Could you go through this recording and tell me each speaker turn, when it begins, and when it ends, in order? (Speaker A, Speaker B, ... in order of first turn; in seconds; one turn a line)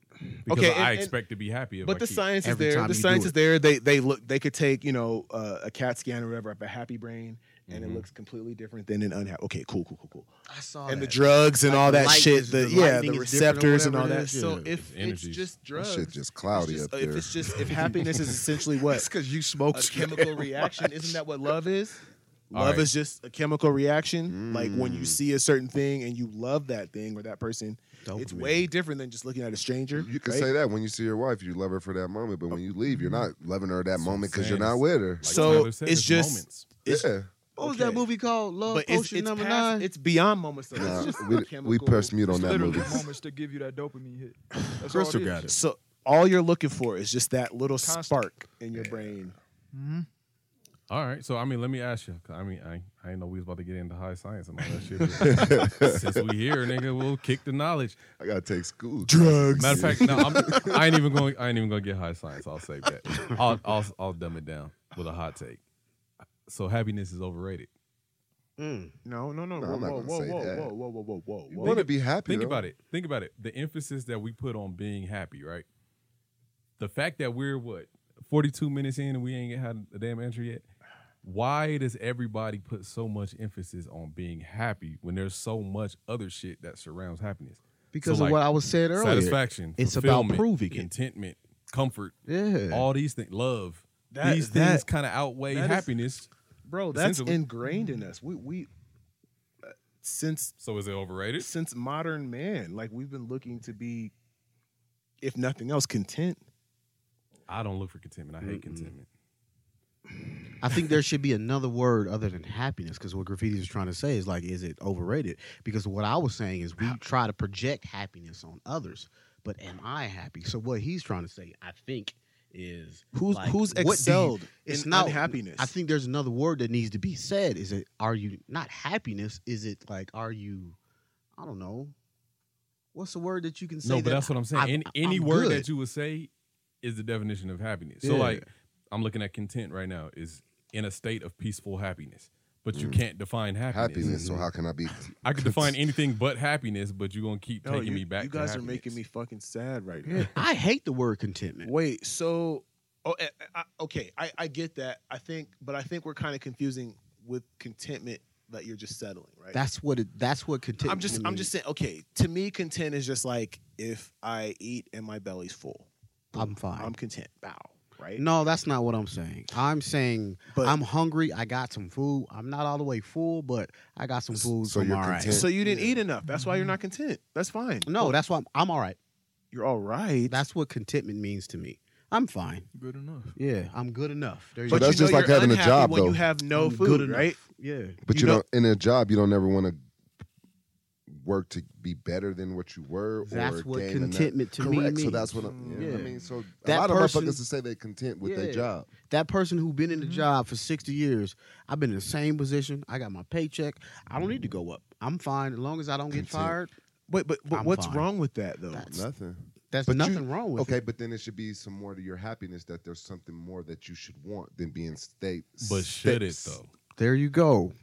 Speaker A: 0.3-1.1
Speaker B: 0.5-2.2
Speaker A: 1.8-10.3
Speaker C: 2.4-3.4
Speaker B: 7.7-8.1
Speaker C: 10.5-14.7
Speaker A: 10.8-19.1
Speaker B: 14.8-15.5
Speaker D: 15.7-17.7
Speaker C: 17.6-18.3
Speaker C: 18.8-21.2
Speaker A: 19.7-22.0
Speaker A: 22.5-30.5
Speaker B: 22.5-22.9
Speaker D: 24.3-25.2
Speaker C: 28.0-28.7
Speaker D: 29.9-35.7
Speaker E: 32.9-33.3
Speaker B: 34.0-36.7
Speaker A: 35.2-38.1
Speaker D: 36.9-37.3
Speaker C: 37.6-39.9
Speaker A: 38.6-43.0
Speaker D: 40.7-43.0
Speaker E: 42.3-45.5
Speaker C: 44.9-45.5
Speaker A: 45.5-49.3
Speaker E: 47.8-48.2
Speaker D: 48.7-49.1
Speaker E: 49.7-50.1
Speaker B: 50.9-58.0
Speaker D: 55.2-56.2
Speaker D: 58.2-60.9
Speaker A: 59.0-60.5
Speaker B: 59.6-65.6
Speaker B: 66.5-67.7
Speaker C: 68.6-69.0
Speaker A: 69.0-71.8
Speaker D: 69.6-70.7
Speaker D: 71.5-72.7
Speaker B: 71.6-75.6
Speaker B: 76.8-80.7
Speaker B: 81.2-88.4
Speaker C: 87.9-90.9
Speaker B: 88.9-92.2
Speaker C: 92.3-92.9
Speaker B: 92.7-96.3
Speaker A: 94.1-94.8
Speaker A: 95.5-95.9
Speaker A: 96.6-98.7
Speaker B: 96.9-97.4
Speaker E: 97.6-98.1
Speaker A: 99.6-100.5
Speaker B: 100.6-101.5
Speaker A: 101.4-104.1
Speaker A: 105.2-106.4
Speaker B: 107.5-109.1
Speaker C: 108.4-108.9
Speaker C: 110.6-130.8
Speaker A: 123.1-125.7
Speaker C: 131.4-131.9
Speaker C: 132.9-135.7
Speaker B: 133.8-136.3
Speaker B: 136.8-144.2
Speaker C: 138.0-138.4
Speaker D: 142.7-143.0
Speaker D: 143.7-145.7
Speaker C: 144.0-144.5
Speaker B: 145.2-149.0
Speaker A: 147.6-150.3
Speaker C: 150.1-151.7
Speaker A: 151.6-159.6
Speaker C: 159.5-161.5
Speaker A: 160.8-168.2
Speaker C: 166.3-166.9
Speaker C: 168.2-175.4
Speaker A: 170.5-170.8
Speaker D: 174.4-175.5
Speaker A: 175.2-178.2
Speaker E: 176.2-176.8
Speaker C: 177.8-179.0
Speaker A: 179.5-180.4
Speaker C: 180.3-182.7
Speaker E: 182.7-183.3
Speaker C: 183.3-185.3
Speaker D: 184.7-186.2
Speaker A: 184.7-187.4
Speaker C: 186.5-188.0
Speaker D: 188.1-189.8
Speaker A: 188.1-188.4
Speaker D: 191.1-198.9
Speaker C: 193.2-197.4
Speaker A: 195.4-196.2
Speaker C: 198.2-206.7
Speaker E: 199.9-200.3
Speaker D: 206.1-206.6
Speaker A: 207.1-208.9
Speaker C: 207.5-208.1
Speaker C: 208.7-209.0
Speaker D: 208.8-216.6
Speaker C: 209.7-210.8
Speaker B: 215.6-216.7
Speaker C: 216.9-217.7